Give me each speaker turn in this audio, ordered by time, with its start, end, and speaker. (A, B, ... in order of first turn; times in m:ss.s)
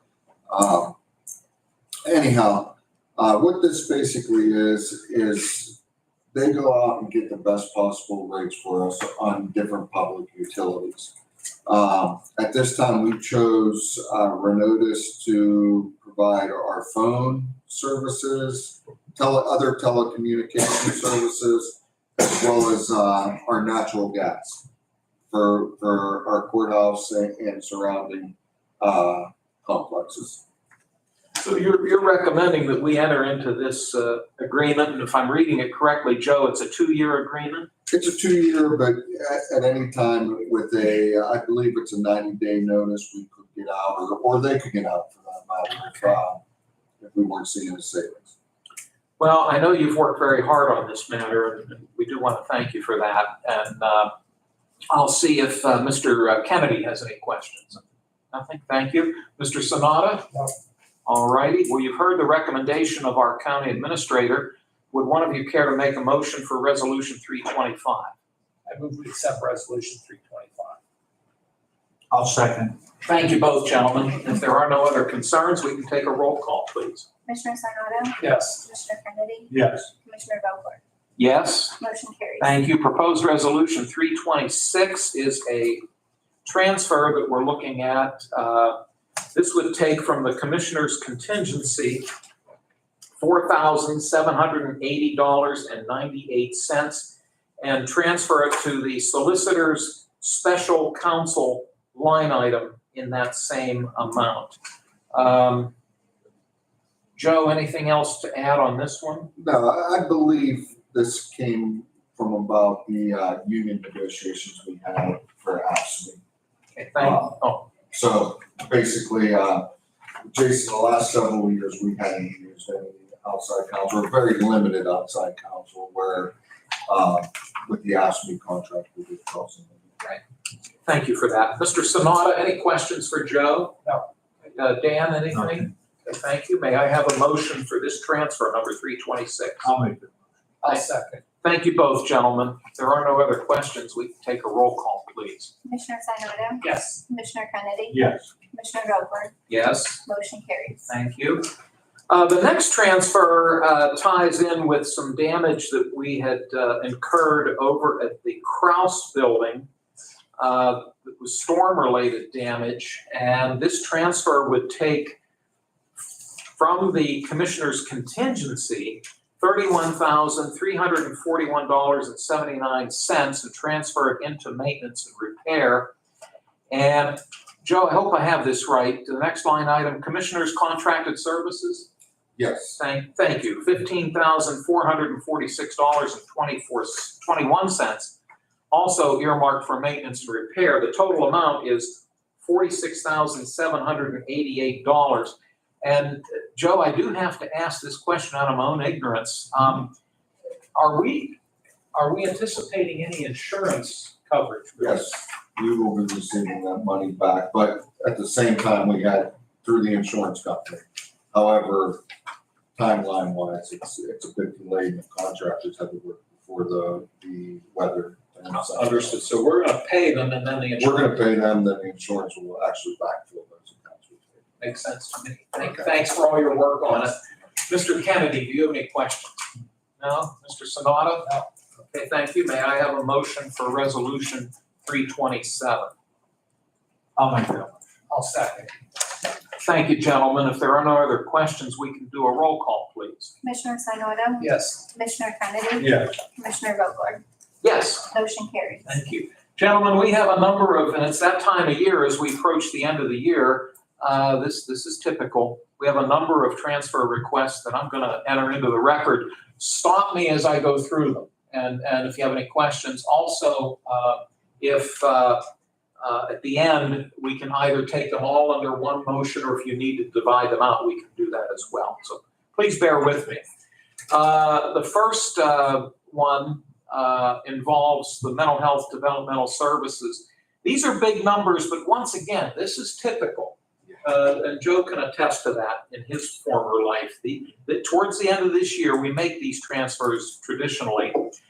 0:00.5-0:01.0 A
0:02.1-0:05.8 A
0:06.3-0:11.1 A
0:11.7-0:24.6 A
0:25.3-0:30.4 A
0:31.4-0:37.7 B
0:37.9-0:46.4 A
0:47.0-0:48.3 A
0:49.2-0:54.1 B
0:54.9-1:00.3 B
1:01.1-1:08.1 B
1:08.7-1:10.8 C
1:12.1-1:12.8 D
1:13.0-1:17.1 B
1:17.3-1:20.8 E
1:18.2-1:18.6 C
1:19.5-1:19.9 D
1:21.2-1:21.8 B
1:21.8-1:22.5 E
1:22.4-1:25.8 B
1:26.4-1:28.8 B
1:29.3-1:32.1 B
1:33.2-1:44.6 B
1:45.1-1:45.7 B
1:47.2-1:49.3 B
1:49.4-1:56.2 A
1:56.8-1:57.7 B
1:57.0-1:59.7 A
2:00.3-2:06.4 A
2:06.9-2:10.0 A
2:10.8-2:13.8 B
2:14.5-2:19.7 B
2:15.3-2:15.7 D
2:19.6-2:20.2 D
2:20.6-2:21.2 C
2:21.4-2:25.6 B
2:25.6-2:28.0 E
2:26.6-2:27.0 C
2:27.9-2:28.3 D
2:28.5-2:29.3 E
2:29.5-2:30.0 B
2:30.0-2:30.8 E
2:30.9-2:31.5 B
2:32.1-2:39.7 B
2:40.4-2:45.2 B
2:46.5-2:55.9 B
2:56.7-3:01.9 B
3:02.4-3:02.8 A
3:02.7-3:08.2 B
3:08.7-3:20.0 B
3:20.8-3:21.4 B
3:21.9-3:25.1 B
3:24.8-3:32.0 A
3:32.8-3:39.3 A
3:38.5-3:41.1 B
3:40.8-3:44.4 A
3:44.6-3:49.4 B
3:50.0-3:55.9 B
3:57.2-3:57.9 D
3:58.1-3:58.7 C
3:59.6-4:03.3 B
4:03.4-4:07.2 E
4:04.4-4:04.8 C
4:05.8-4:06.2 D
4:07.6-4:08.2 B
4:08.1-4:08.9 E
4:08.9-4:25.4 B
4:26.0-4:33.4 B
4:34.1-4:51.3 B